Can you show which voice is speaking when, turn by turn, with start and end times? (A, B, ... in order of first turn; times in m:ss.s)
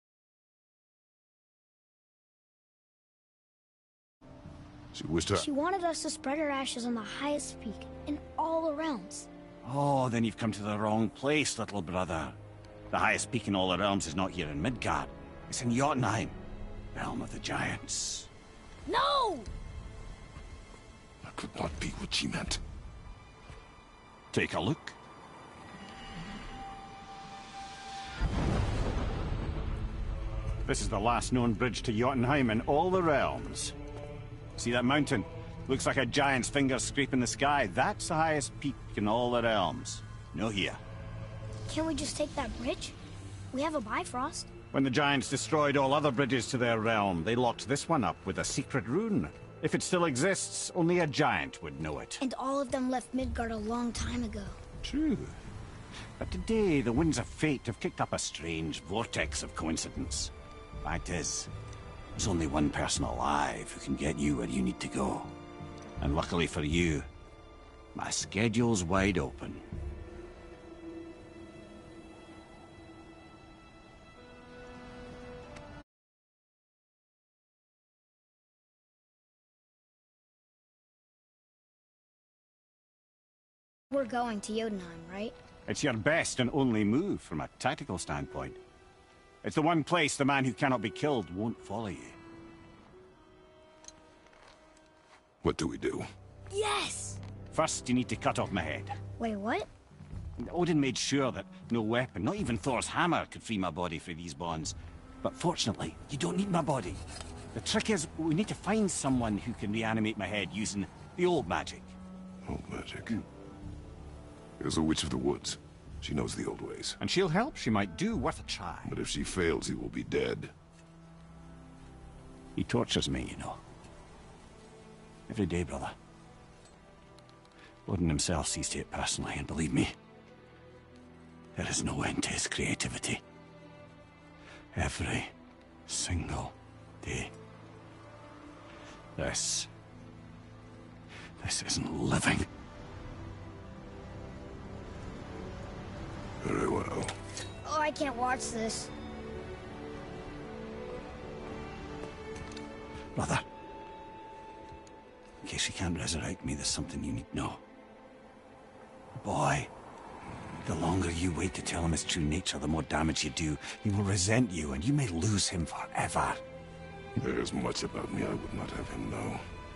0:04.9-0:05.5 A
0:05.4-0:09.3 B
0:09.6-0:12.4 C
0:12.9-0:16.4 C
0:16.9-0:18.3 C
0:18.8-0:19.5 B
0:21.2-0:22.6 A
0:24.3-0:25.0 C
0:30.6-0:33.7 C
0:34.6-0:40.8 C
0:41.7-0:43.0 B
0:43.5-0:44.5 B
0:44.7-0:52.2 C
0:52.2-0:54.6 B
0:54.8-0:55.4 C
0:56.2-1:00.3 C
1:00.8-1:01.5 C
1:02.2-1:05.3 C
1:06.0-1:07.0 C
1:07.9-1:09.6 C
1:23.9-1:25.4 B
1:25.7-1:28.6 C
1:29.4-1:32.2 C
1:35.4-1:36.1 A
1:36.5-1:37.2 B
1:37.5-1:38.9 C
1:39.2-1:39.7 B
1:40.4-1:47.0 C
1:47.5-1:51.9 C
1:52.4-1:53.2 A
1:54.6-1:57.0 A
1:57.0-1:58.9 C
1:58.8-2:00.5 A
2:02.6-2:03.6 C
2:05.3-2:05.9 C
2:07.9-2:09.9 C
2:11.6-2:13.2 C
2:14.7-2:15.3 C
2:15.9-2:17.3 C
2:19.2-2:19.7 C
2:21.4-2:22.5 C
2:26.4-2:27.1 A
2:27.6-2:28.9 B
2:33.2-2:33.4 C
2:35.4-2:37.6 C
2:39.2-2:39.7 C
2:40.6-2:46.4 C
2:47.2-2:49.4 A